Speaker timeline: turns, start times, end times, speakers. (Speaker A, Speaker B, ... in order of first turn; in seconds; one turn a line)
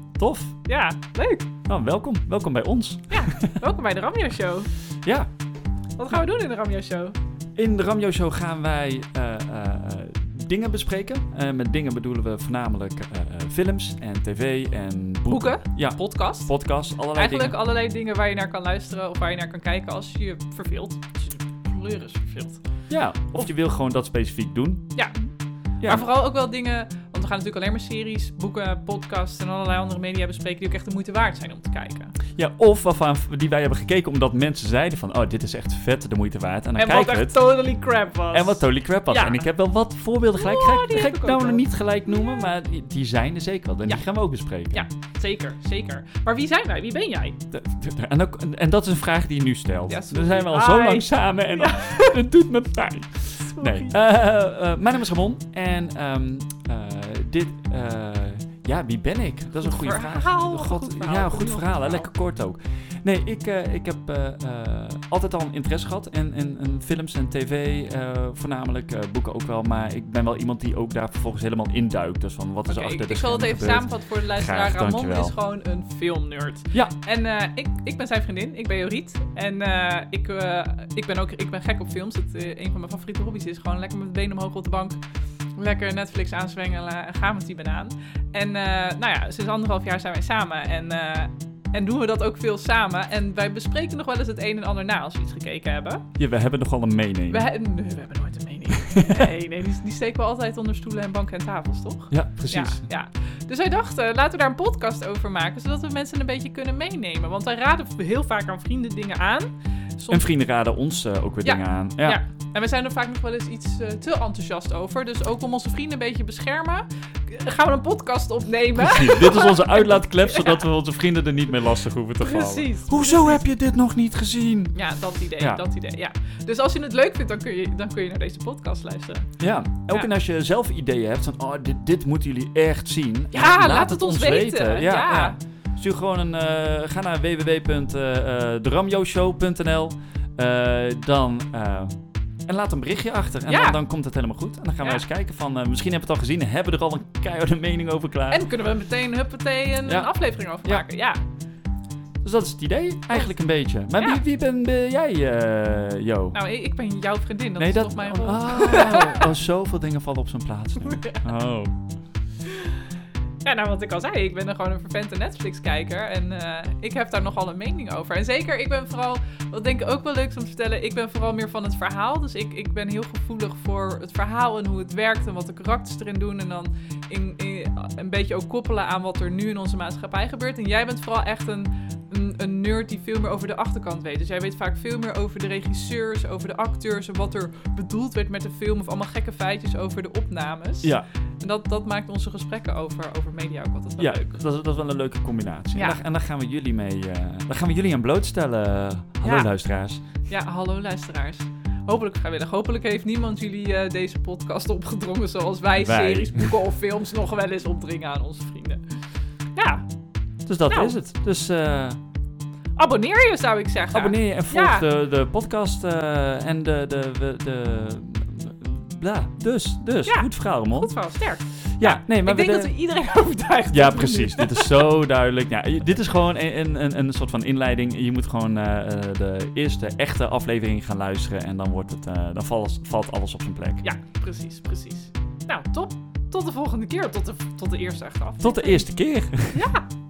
Speaker A: 0.2-0.6
Speaker B: 0.6-1.5
Speaker A: 1.7-3.6
Speaker B: 3.1-4.7
Speaker B: 6.0-7.2
Speaker A: 7.6-17.6
Speaker B: 15.3-16.5
Speaker B: 17.1-22.6
Speaker A: 22.9-25.0
Speaker A: 25.8-26.1
Speaker B: 25.8-32.1
Speaker A: 32.4-37.4
Speaker B: 36.8-39.5
Speaker A: 38.3-44.9
Speaker B: 40.4-41.6
Speaker B: 44.7-47.4
Speaker A: 47.5-75.3
Speaker B: 49.9-52.2
Speaker B: 53.4-53.9
Speaker B: 59.6-62.1
Speaker B: 72.7-85.0
Speaker B: 85.6-96.0
Speaker A: 96.2-97.5
Speaker B: 97.3-110.2
Speaker A: 99.0-99.3
Speaker A: 102.1-102.8
Speaker A: 110.1-112.2
Speaker B: 111.4-120.6
Speaker A: 118.8-124.8
Speaker B: 122.2-123.4
Speaker B: 124.7-129.3
Speaker A: 125.4-125.6
Speaker A: 129.4-142.0
Speaker B: 133.3-135.4
Speaker A: 142.5-148.5
Speaker B: 143.5-143.8
Speaker B: 148.3-151.2
Speaker A: 149.9-150.9
Speaker A: 152.2-156.4
Speaker B: 154.0-154.2
Speaker B: 156.3-159.3
Speaker A: 157.6-161.8
Speaker B: 160.9-161.2
Speaker B: 163.4-194.4
Speaker A: 194.0-200.0
Speaker B: 195.7-196.0
Speaker B: 199.2-199.5
Speaker B: 200.3-208.8
Speaker A: 205.7-206.5
Speaker B: 209.6-209.9
Speaker A: 210.5-212.0
Speaker B: 210.7-211.0
Speaker B: 212.8-214.8
Speaker A: 213.9-221.1
Speaker B: 220.1-224.8
Speaker A: 221.7-222.8
Speaker A: 223.7-233.8
Speaker B: 233.8-238.9
Speaker A: 238.4-239.7
Speaker B: 239.5-239.9